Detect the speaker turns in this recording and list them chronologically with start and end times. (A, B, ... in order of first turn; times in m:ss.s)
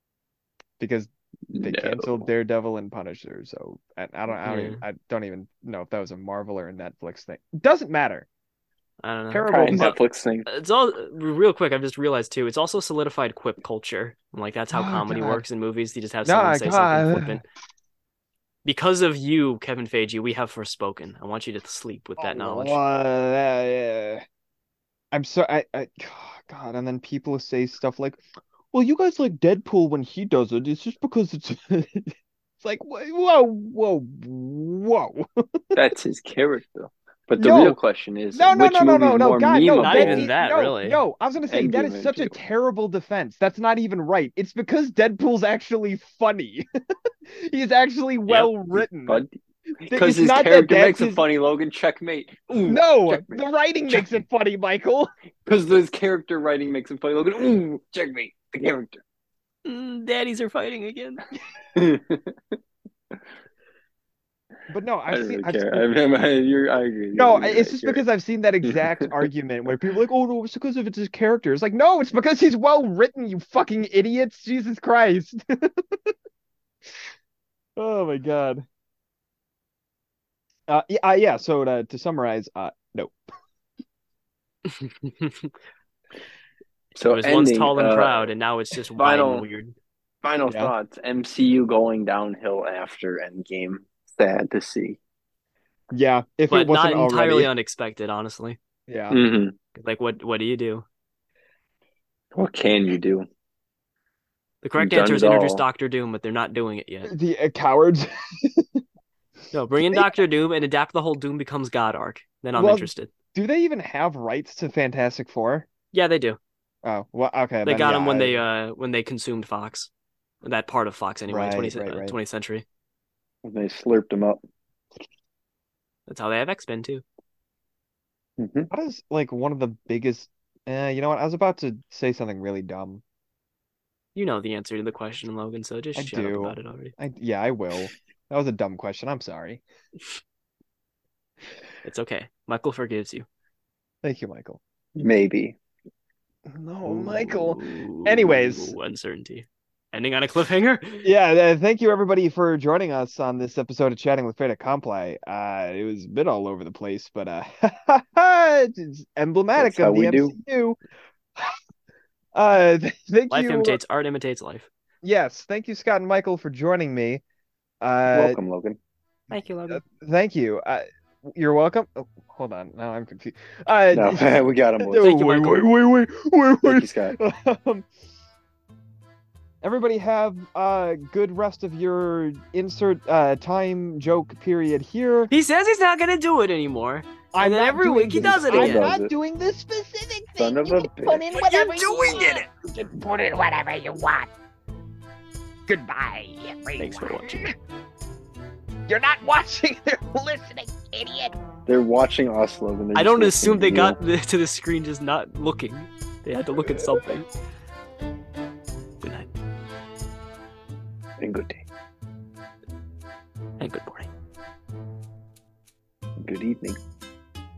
0:00.8-0:08.3 A
0:01.5-0:02.2 B
0:04.4-0:04.8 C
0:09.0-0:09.9 C
0:09.3-0:09.9 A
0:09.5-0:10.4 B
0:10.5-0:17.4 C
0:14.7-0:15.4 A
0:16.2-0:17.4 A
0:18.6-0:22.8 C
0:22.2-0:24.2 A
0:25.1-0:35.2 A
0:35.7-0:40.3 B
0:37.4-0:37.8 A
0:38.3-0:46.6 A
0:39.8-0:41.0 C
0:41.5-0:42.4 B
0:47.3-0:49.2 A
0:49.8-0:54.1 B
0:49.9-0:51.2 A
0:52.6-0:55.1 A
0:55.4-0:59.0 B
0:59.6-1:01.2 C
1:01.7-1:02.6 B
1:04.7-1:05.8 A
1:05.1-1:08.0 B
1:07.1-1:16.1 A
1:08.6-1:09.0 B
1:17.8-1:18.6 A
1:20.7-1:23.2 A
1:24.6-1:25.5 C
1:27.0-1:28.3 B
1:27.1-1:29.7 C
1:29.0-1:29.4 B
1:30.2-1:35.0 B
1:35.9-1:37.5 A
1:36.5-1:38.6 C
1:38.9-1:39.2 A
1:39.1-1:39.5 B
1:39.7-1:40.8 C
1:42.3-1:43.2 B
1:44.6-1:47.1 C
1:44.8-1:45.6 B
1:47.1-1:48.7 A
1:49.5-1:53.1 C
1:49.9-1:50.2 A
1:52.5-1:55.7 A
1:55.9-1:56.4 C
1:56.8-1:58.4 A
1:57.6-1:59.9 C
2:00.4-2:02.6 C
2:01.3-2:02.2 A
2:03.4-2:04.4 B
2:06.1-2:07.0 C
2:08.4-2:08.7 B
2:08.7-2:13.0 A
2:14.1-2:16.9 C
2:16.0-2:19.6 A
2:21.8-2:23.2 C
2:24.0-2:24.6 A
2:25.0-2:25.6 B
2:26.5-2:28.7 A
2:26.8-2:31.0 C
2:31.0-2:40.8 A
2:39.6-2:40.4 B
2:42.3-2:43.8 A
2:43.3-2:44.7 C
2:45.0-2:47.2 A
2:47.8-2:48.4 A
2:48.1-2:48.8 B
2:49.3-2:49.8 C
2:49.7-2:57.9 A
2:53.9-2:55.0 B
2:55.0-2:55.7 C
2:56.6-2:57.2 B
2:59.6-3:05.3 A
3:05.3-3:08.9 C
3:07.3-3:14.3 A
3:08.5-3:09.1 B
3:10.4-3:11.3 B
3:11.3-3:12.4 C
3:15.7-3:17.5 A
3:16.8-3:17.5 C
3:18.9-3:21.3 A
3:21.7-3:24.0 B
3:22.9-3:27.3 C
3:29.0-3:29.3 C
3:31.2-3:31.6 B
3:33.6-3:34.1 C
3:36.2-3:36.8 B